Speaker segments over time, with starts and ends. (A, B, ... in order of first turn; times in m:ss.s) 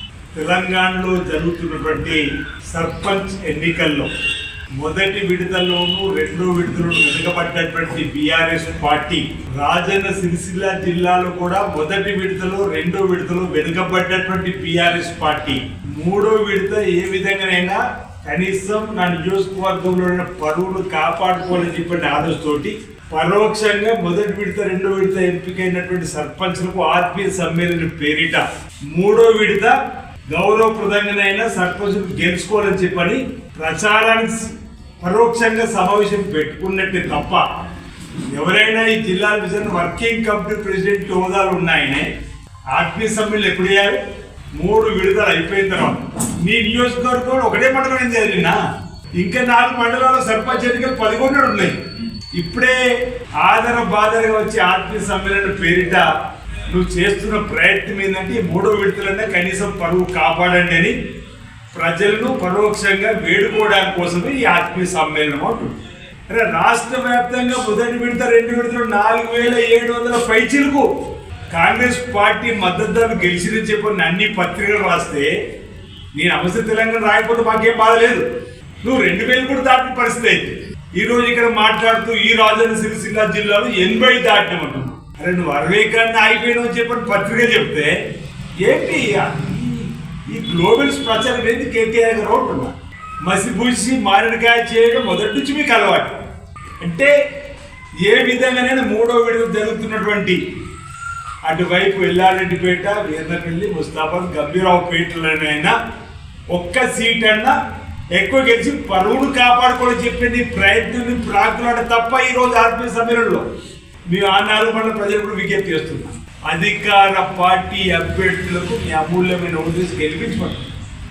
0:00.3-0:04.1 A
0:04.8-0:29.8 A
0:30.3-0:37.4 A
0:38.3-0:42.1 A
0:42.7-0:44.0 A
0:44.6-0:48.6 A
0:49.2-0:51.8 A
0:52.3-0:52.8 A
0:53.4-0:56.1 A
0:56.7-1:01.0 A
1:01.7-1:05.8 A
1:06.3-1:10.9 A
1:11.5-1:15.3 A
1:16.1-1:18.3 A
1:18.8-1:28.0 A
1:28.6-1:36.2 A
1:36.8-1:37.2 A
1:38.0-1:40.4 A
1:41.4-1:45.8 A
1:46.5-1:47.6 A
1:48.1-1:53.5 A
1:54.1-2:00.7 A